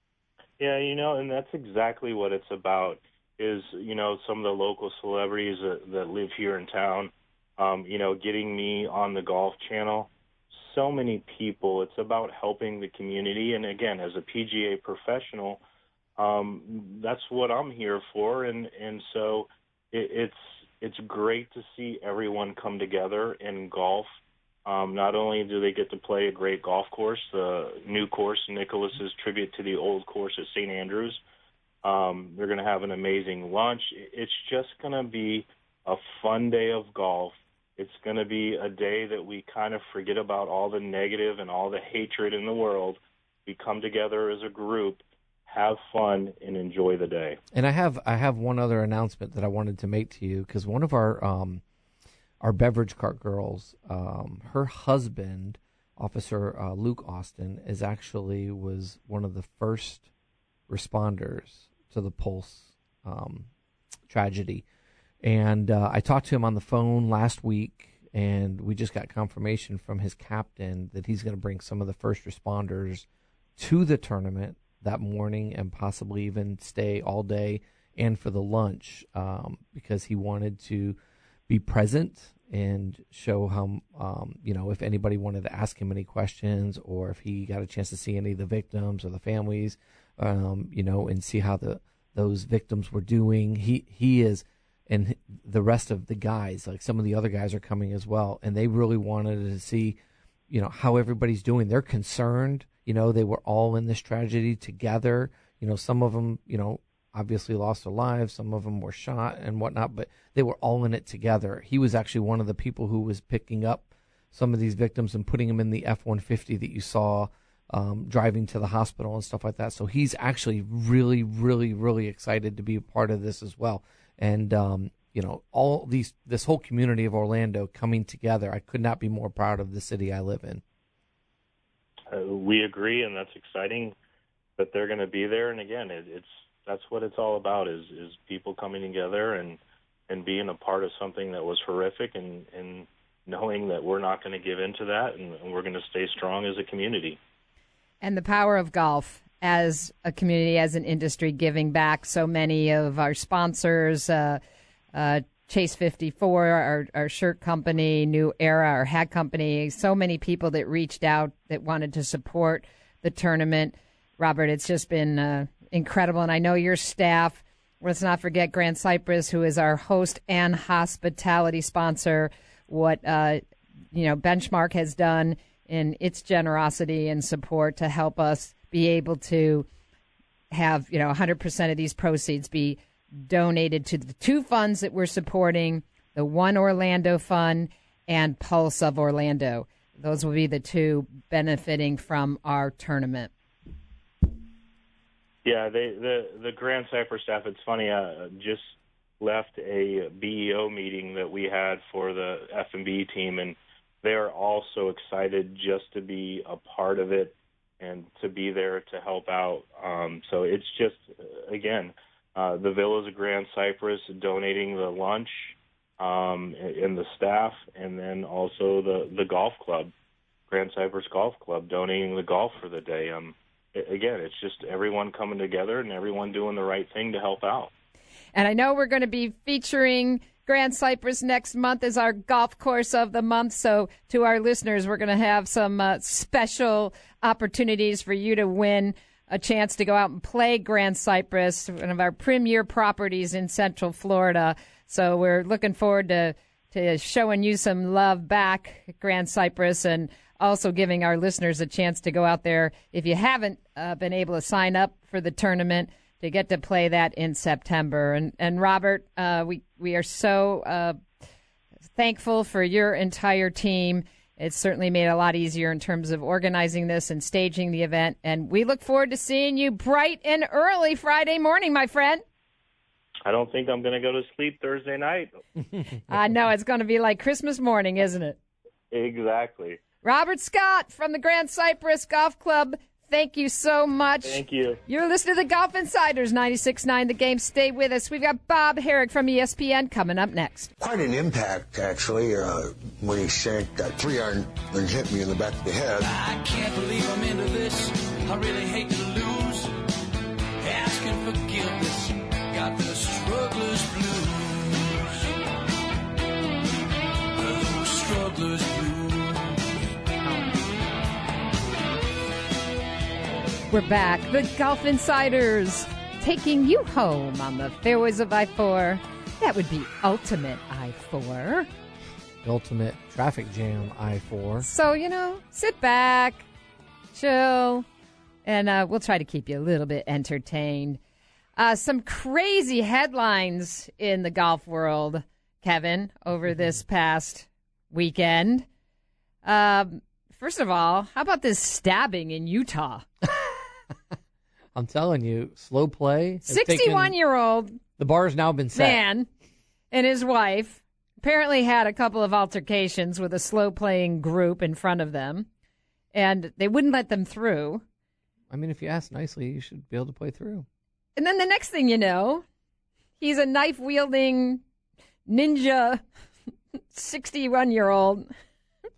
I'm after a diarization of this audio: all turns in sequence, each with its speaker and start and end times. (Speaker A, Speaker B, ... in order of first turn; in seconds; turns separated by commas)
Speaker A: 0.6-15.6, Speaker A: 16.2-24.1, Speaker A: 24.7-31.2, Speaker A: 31.8-47.4, Speaker B: 47.5-51.6, Speaker B: 52.4-60.1, Speaker B: 60.7-63.5, Speaker B: 64.1-64.7, Speaker B: 65.2-73.1, Speaker B: 73.6-81.0, Speaker B: 81.5-100.0, Speaker B: 100.5-130.6, Speaker A: 132.1-133.9, Speaker A: 134.6-147.2, Speaker C: 148.0-154.4, Speaker C: 154.9-173.4, Speaker C: 173.9-179.7, Speaker C: 180.5-193.3, Speaker A: 195.4-219.9, Speaker A: 220.5-227.7, Speaker C: 228.3-261.0, Speaker C: 262.0-272.2, Speaker A: 273.2-275.4, Speaker C: 276.1-278.4, Speaker A: 278.9-279.8, Speaker C: 280.0-290.7, Speaker A: 284.2-284.8, Speaker D: 290.8-296.1, Speaker E: 296.0-299.8, Speaker E: 300.6-305.3, Speaker E: 307.4-309.8, Speaker C: 313.7-321.7, Speaker B: 322.4-324.7, Speaker C: 324.6-326.5, Speaker C: 327.1-327.9, Speaker C: 328.4-331.0, Speaker C: 331.6-338.7, Speaker C: 339.4-343.1, Speaker B: 344.8-347.2, Speaker C: 346.5-347.8, Speaker B: 348.0-349.0, Speaker C: 348.7-349.3, Speaker C: 349.9-355.5, Speaker C: 356.1-357.8, Speaker B: 358.5-360.7, Speaker C: 361.2-362.4, Speaker C: 363.2-364.6, Speaker C: 365.3-366.0, Speaker C: 366.9-368.3